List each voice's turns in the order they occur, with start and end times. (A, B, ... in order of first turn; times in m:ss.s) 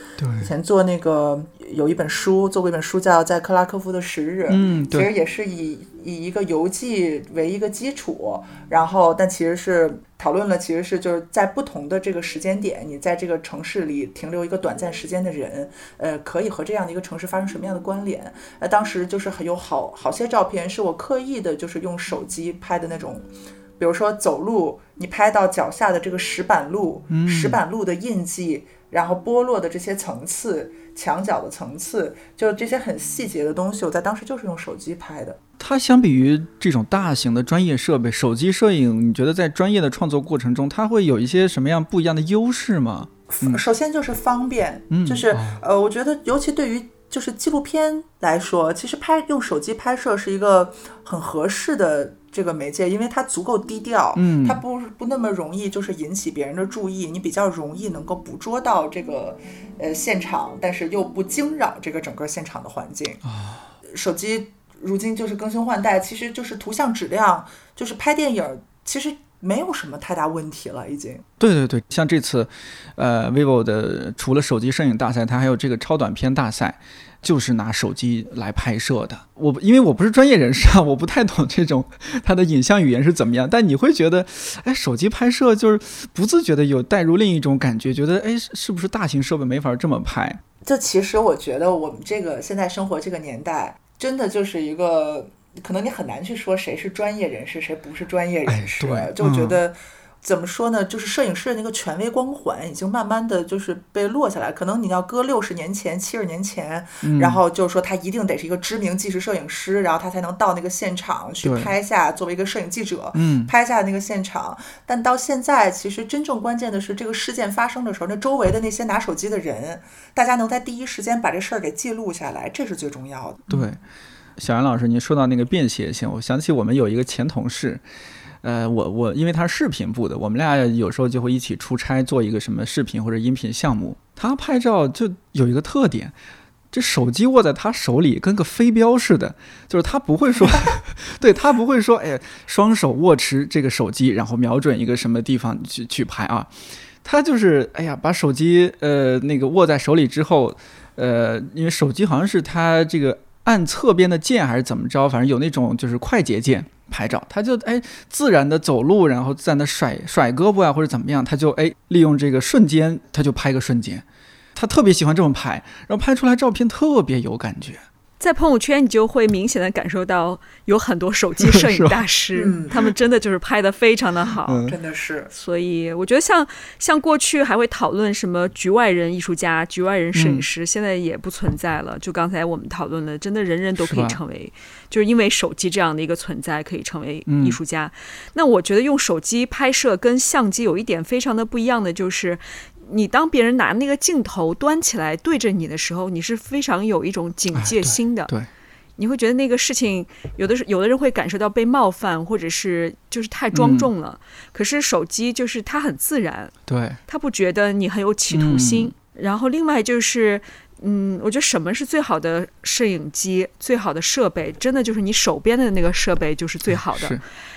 0:00.2-0:00.5 A
0:00.4-0:35.4 B
0:04.5-0:05.1 A
0:27.1-0:27.6 A
0:35.6-0:43.6 A
0:43.3-1:03.2 B
0:44.9-0:45.6 A
0:54.1-0:54.6 A
1:03.2-1:03.6 A
1:03.8-1:11.2 B
1:11.4-1:30.4 A
1:30.6-2:03.7 B
1:38.5-1:39.6 A
1:47.0-1:47.4 A
1:51.4-1:51.7 A
1:53.1-1:53.5 A
2:03.5-2:03.8 A
2:04.4-2:07.8 A
2:08.4-2:16.1 A
2:16.7-2:47.8 A
2:48.2-2:54.6 C
2:51.4-2:52.0 A
2:52.3-2:52.8 B
2:54.4-2:54.8 A
2:54.6-2:55.3 B
2:55.3-3:18.3 C
3:00.1-3:00.4 A
3:03.8-3:04.2 A
3:07.3-3:07.6 A
3:17.5-3:18.5 A
3:19.0-3:26.5 C
3:23.5-3:23.9 A
3:26.7-3:27.0 A
3:27.1-3:37.2 C
3:28.3-3:28.9 A
3:36.7-3:37.2 A